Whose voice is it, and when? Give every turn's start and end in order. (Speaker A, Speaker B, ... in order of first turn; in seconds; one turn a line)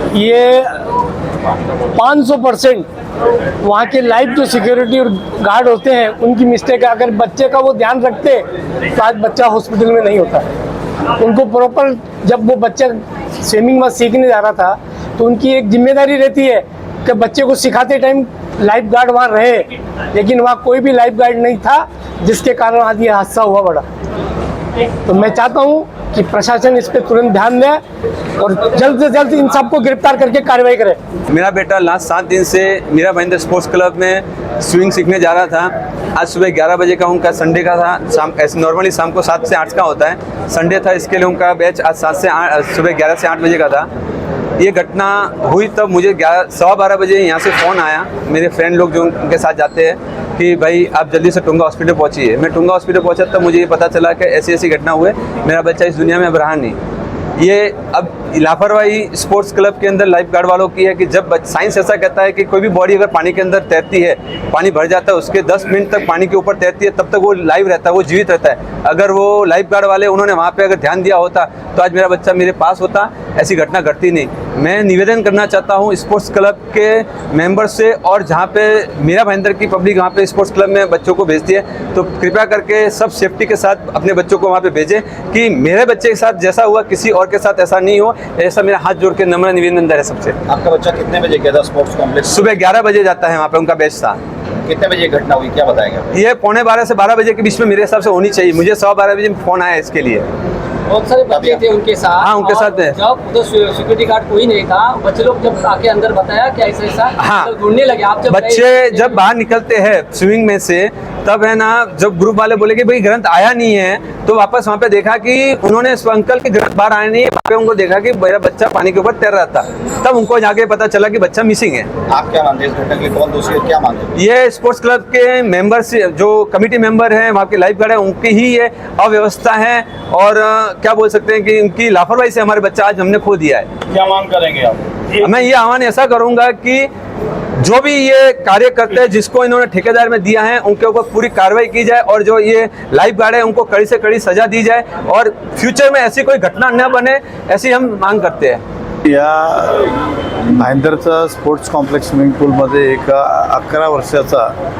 Speaker A: 0.1-0.7
Speaker A: 1.9-2.9
Speaker A: 3.6-10.5
Speaker A: 11.2-23.8
Speaker A: 25.0-27.8
Speaker A: 28.4-31.0
Speaker B: 31.3-43.9
Speaker B: 44.6-56.8
Speaker B: 57.4-90.3
Speaker C: 90.5-92.4
Speaker B: 92.2-94.2
Speaker C: 94.6-96.1
Speaker B: 96.1-100.2
Speaker D: 100.9-109.2
Speaker C: 101.3-101.6
Speaker B: 102.2-103.0
Speaker B: 107.2-107.5
Speaker B: 108.3-121.9
Speaker C: 122.1-124.1
Speaker B: 124.1-133.7
Speaker C: 133.9-134.9
Speaker B: 135.2-136.9
Speaker B: 137.6-148.6
Speaker E: 149.0-149.9
Speaker E: 150.5-154.5